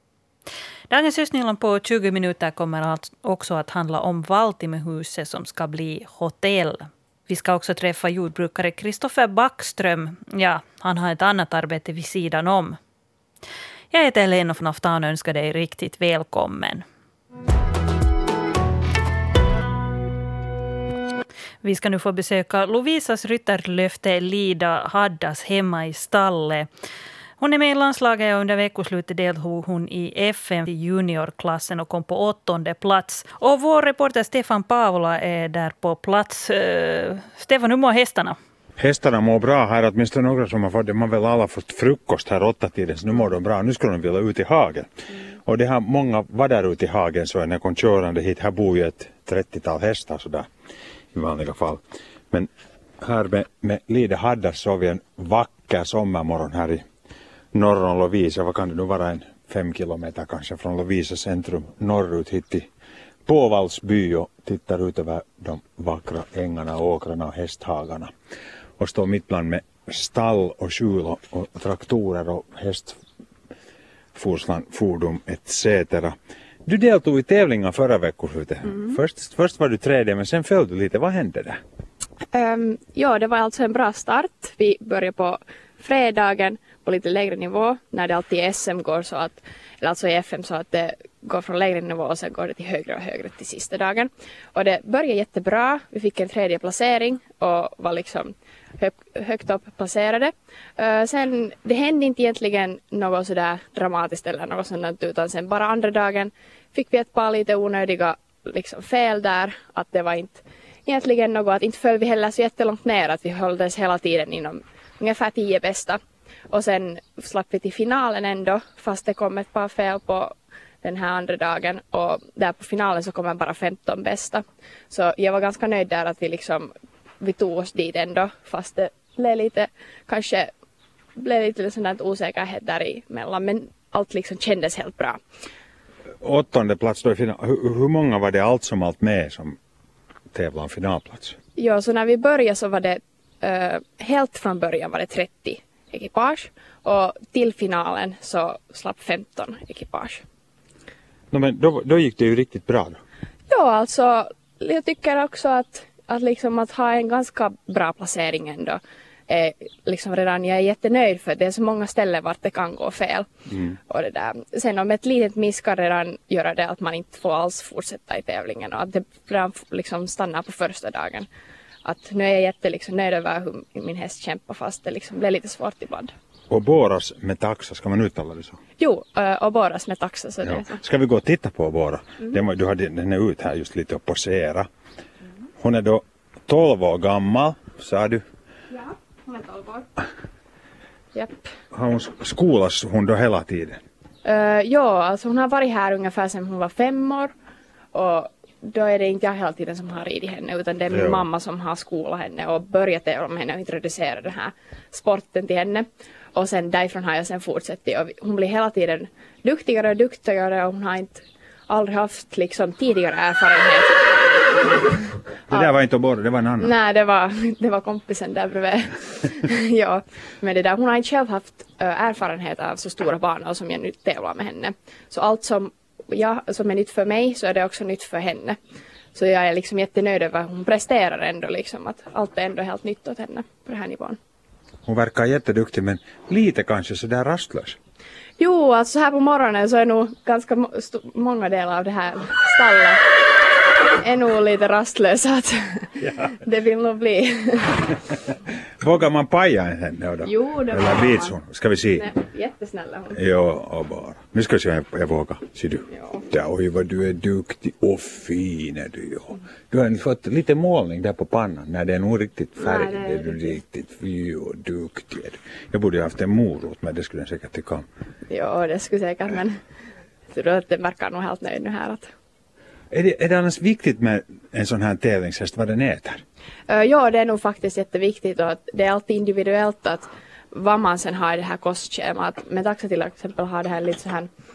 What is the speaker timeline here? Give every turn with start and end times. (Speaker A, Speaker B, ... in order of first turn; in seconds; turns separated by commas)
Speaker A: 0.9-12.8, Speaker A: 13.9-16.8, Speaker A: 21.6-26.7, Speaker A: 27.4-38.4, Speaker B: 38.8-44.9, Speaker B: 45.4-50.5, Speaker B: 51.1-52.5, Speaker B: 53.0-56.8, Speaker B: 57.5-62.7, Speaker B: 63.2-68.1, Speaker B: 68.8-72.9, Speaker B: 74.1-81.6, Speaker C: 82.3-116.0, Speaker C: 116.5-130.5, Speaker C: 131.2-135.2, Speaker B: 136.2-139.6, Speaker B: 140.3-141.3, Speaker C: 141.6-150.2, Speaker B: 151.3-153.0, Speaker C: 153.5-163.3, Speaker C: 163.9-171.3, Speaker C: 171.8-176.1, Speaker B: 176.5-178.6, Speaker C: 178.8-180.8, Speaker B: 180.4-184.7, Speaker B: 185.6-188.2, Speaker C: 188.7-189.9, Speaker C: 191.1-191.5, Speaker B: 191.7-193.8, Speaker C: 194.2-197.3, Speaker C: 197.9-214.0, Speaker B: 200.9-201.2, Speaker B: 215.5-216.7, Speaker C: 215.5-215.8, Speaker C: 216.6-228.6, Speaker C: 229.1-234.2, Speaker B: 234.8-237.8, Speaker C: 238.4-243.0, Speaker C: 244.0-248.0, Speaker B: 248.8-252.1, Speaker C: 250.2-251.3, Speaker C: 251.9-253.2, Speaker B: 253.1-267.8, Speaker C: 255.9-256.2, Speaker C: 262.6-263.6, Speaker C: 268.3-269.6, Speaker C: 270.3-272.1, Speaker B: 272.9-276.2, Speaker C: 276.7-284.3